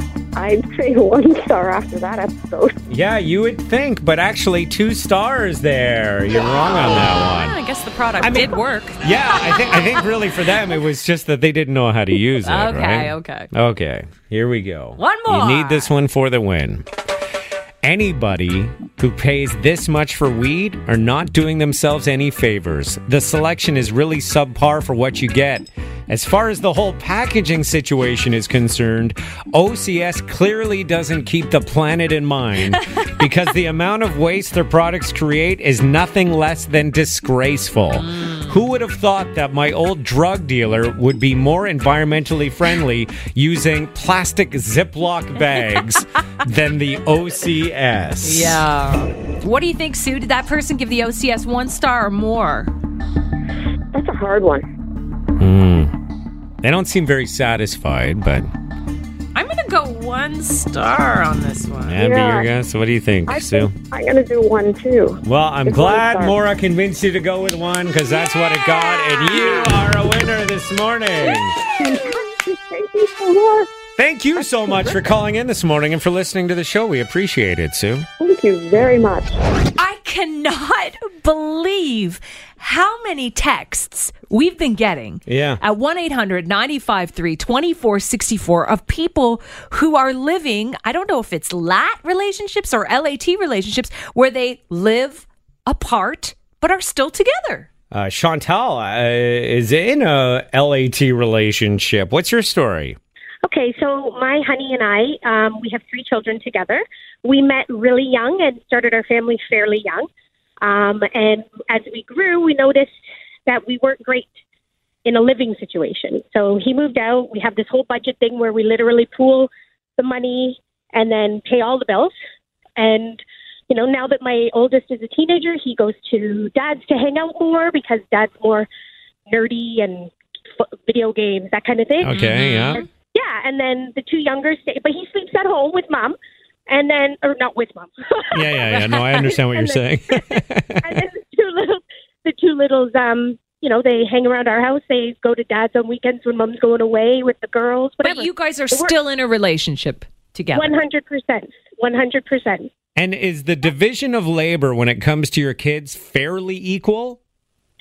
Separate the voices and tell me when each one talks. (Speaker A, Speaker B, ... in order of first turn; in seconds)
Speaker A: 0.4-2.8, 53.9-54.7, 62.0-62.5, 63.3-66.4, 71.6-73.7, 78.2-79.4
Speaker B: 2.9-7.6, 8.2-16.9, 17.8-48.6, 55.4-55.9, 56.6-58.5, 61.9-63.8, 65.2-71.6, 74.0-78.1, 85.3-85.6, 97.9-103.0, 132.0-132.8, 138.3-141.0, 153.0-157.2
Speaker C: 6.9-9.0, 12.4-13.5, 15.0-15.9, 38.0-38.6, 48.2-52.7, 59.4-62.0, 68.2-69.9, 79.8-97.7, 132.1-132.9, 138.6-139.3, 148.0-150.8
Speaker D: 103.5-110.1, 110.6-112.9, 113.5-114.4, 115.0-122.1, 122.8-128.7, 129.3-130.1, 130.6-132.1, 132.8-136.2, 136.7-138.5, 139.5-139.8, 140.8-148.9, 150.5-152.7